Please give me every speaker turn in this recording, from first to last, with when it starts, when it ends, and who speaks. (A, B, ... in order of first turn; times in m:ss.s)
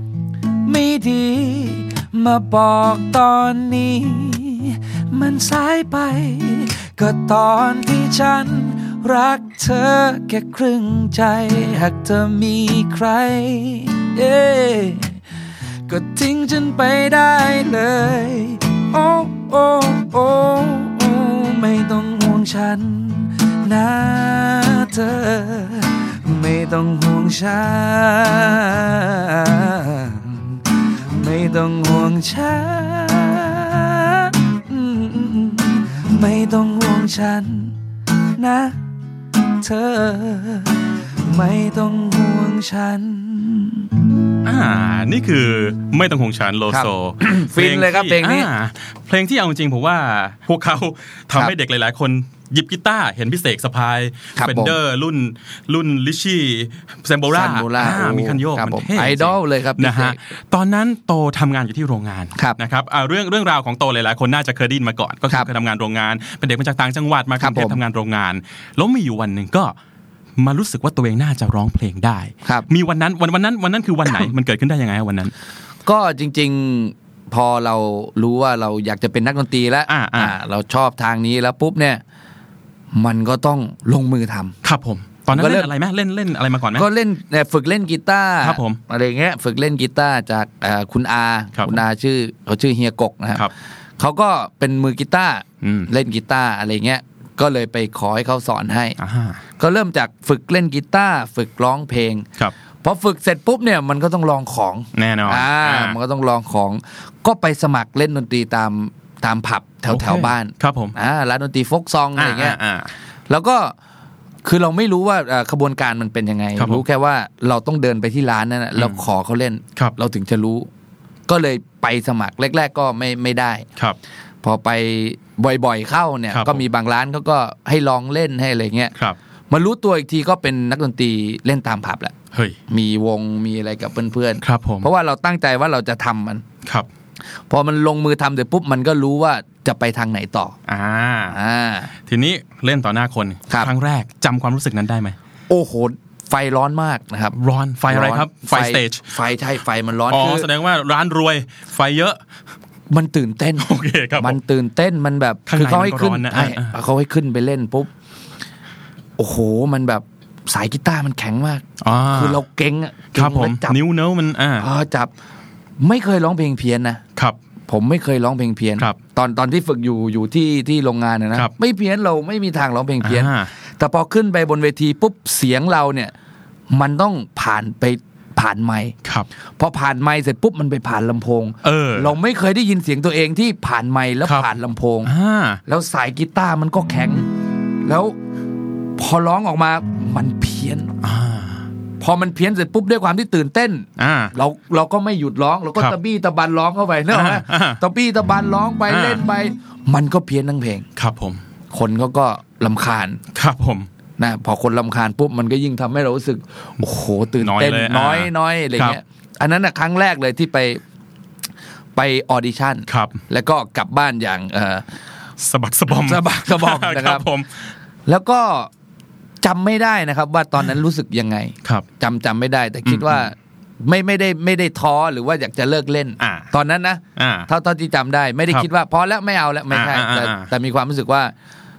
0:00.6-0:15.2 A
0:15.9-0:30.6 A
0:31.1-0:37.8 A
0:38.4-0:38.8 A
0:39.6-0:43.9 A
0:44.4-1:09.7 B
0:46.7-0:48.5 A
0:54.4-0:54.8 A
0:57.3-1:00.2 A
1:07.4-1:07.8 A
1:10.4-1:15.3 B
1:15.8-1:22.0 A
1:19.9-1:20.4 B
1:22.9-1:24.5 A
1:24.6-1:26.9 B
1:25.3-1:25.7 A
1:26.7-1:39.0 A
1:28.4-1:28.8 B
1:31.6-1:31.8 B
1:35.6-1:35.9 B
1:39.0-1:39.4 B
1:39.6-1:42.3 A
1:42.8-1:52.6 A
1:44.9-1:46.0 B
1:49.9-1:50.9 B
1:52.2-1:52.9 B
1:53.3-1:53.7 A
1:54.4-2:00.7 A
1:56.6-1:56.8 B
1:58.8-1:59.0 B
2:01.3-2:03.6 A
2:04.4-2:08.9 A
2:06.3-2:06.6 B
2:09.5-2:12.1 A
2:12.3-2:12.6 B
2:12.7-2:16.4 A
2:14.4-2:14.9 B
2:17.5-2:20.6 A
2:20.7-2:21.4 B
2:21.3-2:21.9 A
2:22.1-2:25.2 B
2:25.5-2:27.4 A
2:27.4-2:29.0 B
2:27.9-2:30.5 A
2:30.1-2:32.2 B
2:32.9-2:37.9 A
2:33.6-2:34.4 B
2:35.5-2:36.7 B
2:39.2-2:43.8 A
2:41.8-2:42.4 B
2:43.1-2:44.7 B
2:44.6-2:45.1 A
2:45.8-2:47.0 A
2:47.7-2:56.1 A
2:53.0-2:53.5 B
2:56.7-2:58.9 A
2:59.6-3:05.1 A
3:01.6-3:02.1 B
3:05.0-3:05.6 B
3:05.6-3:07.3 A
3:07.8-3:08.2 A
3:09.0-3:10.9 A
3:11.0-3:11.7 B
3:12.0-3:20.8 A
3:14.0-3:14.3 B
3:17.1-3:17.8 B
3:18.9-3:19.2 B
3:21.0-3:21.4 B
3:21.7-3:23.2 A
3:23.3-3:23.9 B
3:24.2-3:30.8 A
3:27.4-3:29.0 B
3:32.0-3:34.8 A
3:32.9-3:33.2 B
3:35.4-3:37.7 B
3:35.9-3:37.2 A
3:38.1-3:38.7 A
3:39.4-3:51.3 A
3:42.8-3:43.3 B
3:46.2-3:46.5 B
3:47.2-3:47.5 B
3:49.7-3:50.5 B